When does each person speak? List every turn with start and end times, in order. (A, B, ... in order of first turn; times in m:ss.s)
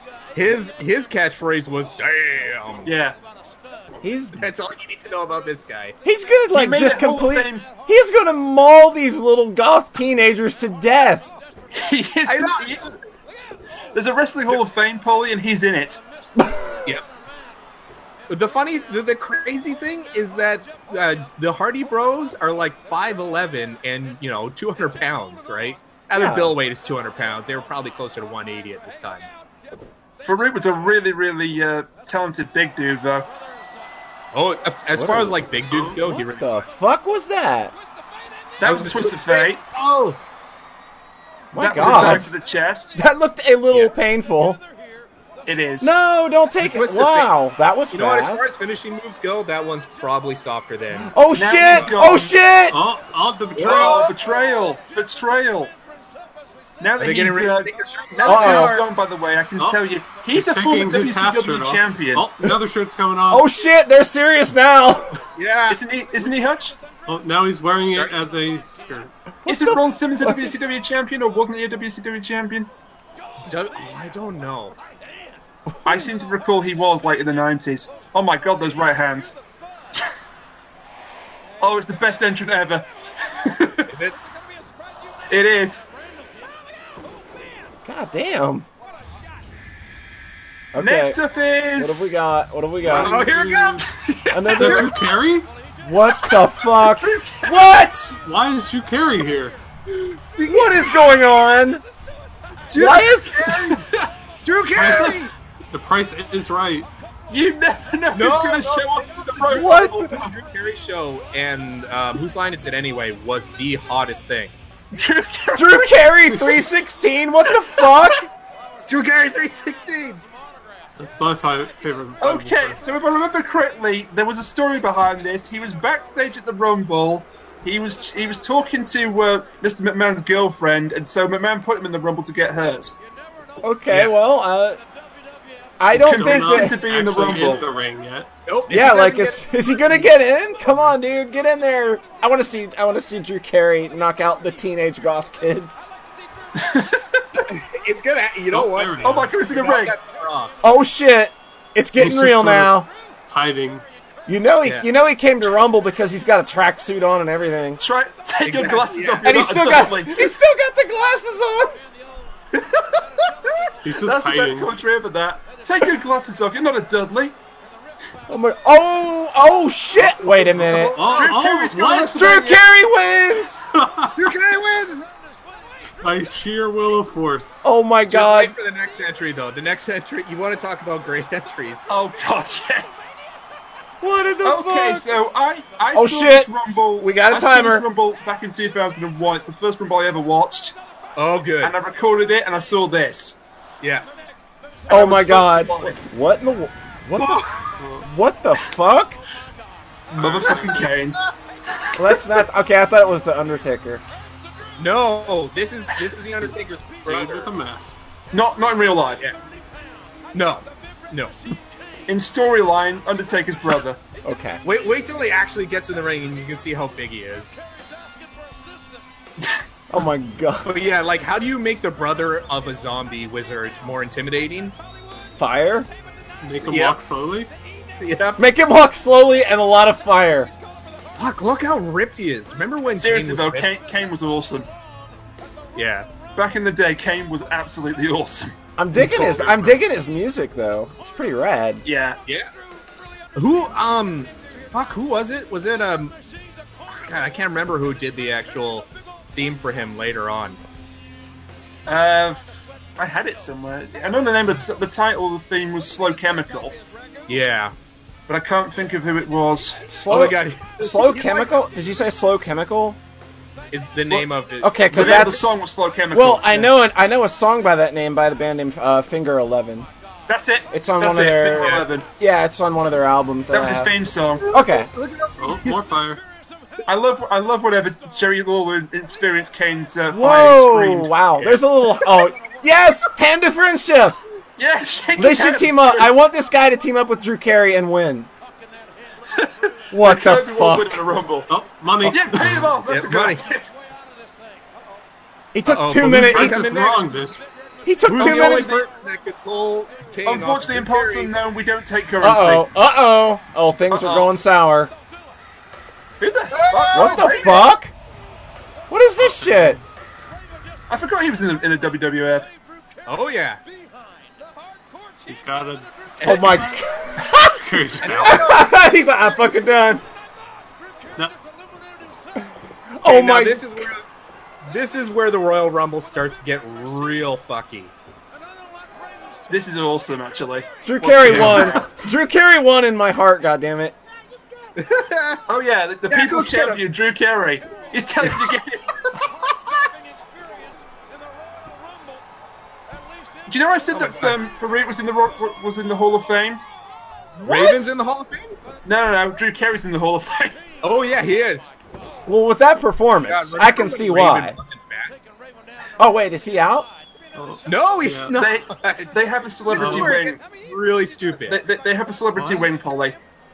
0:00.4-0:02.9 A
0:02.9-0:03.2 B
0:04.0-0:04.5 C
0:04.4-0:06.0 A
0:06.0-0:11.3 C
0:06.5-0:07.7 B
0:11.7-0:13.0 B
0:12.3-0:12.8 A
0:13.9-0:16.0 B
0:18.3-0:29.3 A
0:26.2-0:26.5 C
0:30.2-0:33.3 B
0:34.3-0:36.6 A
0:35.0-0:37.7 C
0:38.6-0:39.6 B
0:38.6-0:40.2 A
0:41.5-0:42.3 C
0:41.5-0:43.0 B
0:43.0-0:44.6 C
0:45.5-0:45.9 B
0:45.8-0:48.5 C
0:46.6-0:47.3 A
0:47.9-0:51.1 A
0:51.1-0:52.8 C
0:51.4-0:52.3 B
0:52.7-0:54.1 D
0:53.6-0:54.1 A
0:53.6-0:55.7 B
0:56.8-1:02.3 B
0:57.0-0:58.9 A
0:58.2-0:58.8 C
1:00.3-1:03.5 D
1:03.3-1:05.2 C
1:05.4-1:05.8 A
1:05.7-1:06.8 B
1:07.1-1:09.1 D
1:09.4-1:10.5 C
1:09.5-1:12.7 B
1:13.5-1:14.8 A
1:15.8-1:19.4 B
1:21.6-1:23.9 B
1:23.9-1:24.2 A
1:25.3-1:25.9 B
1:27.8-1:28.7 C
1:30.7-1:31.2 C
1:30.8-1:32.1 B
1:31.8-1:33.2 C
1:32.8-1:33.9 A
1:32.8-1:33.9 D
1:33.9-1:34.9 B
1:34.3-1:35.0 C
1:34.6-1:35.5 D
1:35.8-1:38.2 C
1:36.7-1:37.7 B
1:38.2-1:39.6 D
1:39.9-1:41.0 A
1:40.5-1:41.8 C
1:42.7-1:43.9 A
1:42.8-1:43.5 C
1:43.5-1:44.1 B
1:44.4-1:45.3 A
1:44.8-1:45.2 B
1:44.8-1:45.2 D
1:45.7-1:46.9 D
1:47.3-1:50.2 B
1:48.1-1:54.5 A
1:49.5-1:50.2 C
1:54.9-1:56.6 B
1:55.6-1:58.3 C
1:58.9-2:00.2 A
2:01.0-2:02.8 D
2:02.2-2:12.9 B
2:13.6-2:14.8 C
2:15.8-2:16.8 C
2:15.9-2:17.7 B
2:16.0-2:18.3 D
2:18.5-2:19.5 A
2:18.7-2:26.0 C
2:26.6-2:27.4 B
2:27.5-2:30.6 A
2:28.5-2:29.3 D
2:29.0-2:30.0 B
2:30.6-2:32.9 C
2:32.0-2:33.8 D
2:34.3-2:37.8 C
2:37.8-2:40.3 B
2:38.4-2:39.3 A
2:39.2-2:41.8 C
2:42.5-2:43.7 A
2:43.8-2:44.7 D
2:44.0-2:47.4 B
2:48.3-2:51.0 C
2:50.2-2:51.4 A
2:51.0-2:52.2 D
2:51.1-2:52.7 B
2:52.2-2:53.7 C
2:53.7-2:54.1 D
2:54.2-2:55.1 A
2:56.0-2:57.6 D
2:57.6-2:58.5 C
2:58.1-3:01.9 A
3:01.9-3:03.2 B
3:04.0-3:05.1 C
3:04.4-3:10.8 B
3:05.9-3:06.5 C
3:07.0-3:07.9 C
3:11.2-3:11.8 A
3:11.6-3:13.4 B
3:13.8-3:14.1 A
3:14.9-3:16.0 B
3:14.9-3:17.5 C
3:17.2-3:17.8 A
3:17.8-3:18.1 D
3:18.0-3:19.2 C
3:20.1-3:21.2 B
3:20.2-3:20.9 D
3:20.2-3:21.3 A
3:22.0-3:24.0 C
3:24.8-3:27.5 A
3:27.1-3:28.0 D
3:28.3-3:29.2 B
3:30.3-3:31.4 A
3:32.1-3:34.0 B
3:34.2-3:34.6 C
3:34.6-3:37.6 A
3:39.9-3:40.7 C
3:40.6-3:44.8 A
3:45.4-3:45.9 C
3:46.4-3:47.5 D
3:46.7-3:47.0 A
3:48.0-3:48.4 A
3:48.4-3:50.5 C
3:51.2-3:53.8 A
3:53.0-3:54.7 B
3:55.8-3:56.1 A
3:56.4-3:58.5 B
3:58.8-4:01.8 C
3:59.0-3:59.8 A
4:01.8-4:02.2 B
4:03.4-4:06.2 A
4:06.9-4:10.6 A
4:11.9-4:16.7 B
4:17.3-4:17.7 A
4:18.3-4:19.8 B
4:19.9-4:23.0 C
4:20.1-4:21.6 A
4:23.7-4:25.4 A
4:24.0-4:24.3 B
4:24.6-4:29.9 C
4:24.9-4:26.7 B
4:30.3-4:32.1 B
4:30.7-4:33.9 C
4:33.5-4:34.4 B
4:34.4-4:35.9 A
4:34.5-4:34.9 C
4:35.4-4:36.2 D
4:36.9-4:41.1 B
4:40.1-4:44.2 C
4:41.4-4:42.1 A
4:44.6-4:46.1 B
4:45.2-4:48.3 C
4:49.3-4:51.5 B
4:49.9-4:51.0 C
4:51.5-4:52.7 D
4:52.0-4:53.7 B
4:52.8-4:53.4 A
4:55.5-4:56.6 C
4:55.6-4:57.2 A
4:56.3-4:57.4 D
4:57.8-4:58.8 C
4:58.1-5:01.3 A
4:58.2-4:58.8 B
5:00.2-5:02.7 B
5:02.2-5:04.9 C
5:03.9-5:04.3 B
5:06.2-5:07.7 B
5:06.5-5:07.6 A
5:06.9-5:07.9 C
5:08.9-5:09.8 C
5:09.2-5:09.8 D
5:10.9-5:12.5 B
5:13.1-5:13.6 A
5:15.3-5:18.5 D
5:16.2-5:16.6 A
5:16.2-5:17.6 C
5:18.0-5:18.7 A
5:18.2-5:20.0 C
5:23.0-5:23.9 C
5:23.0-5:24.0 A
5:24.6-5:27.9 A
5:29.5-5:31.9 B
5:30.8-5:34.0 C
5:31.3-5:31.6 A
5:34.8-5:35.4 A
5:35.5-5:39.1 B
5:36.1-5:36.8 A
5:38.2-5:38.5 A
5:43.5-5:46.6 B
5:43.9-5:44.4 A
5:47.4-5:48.6 A
5:47.4-5:48.0 C
5:48.8-5:50.6 B
5:50.8-5:51.7 A
5:52.3-5:54.6 C
5:53.3-5:55.2 A
5:56.0-5:56.9 C
5:57.4-5:58.4 D
5:57.6-6:01.6 A
5:58.4-6:00.4 B
5:59.8-6:00.1 D
6:01.5-6:03.2 B
6:02.4-6:02.7 D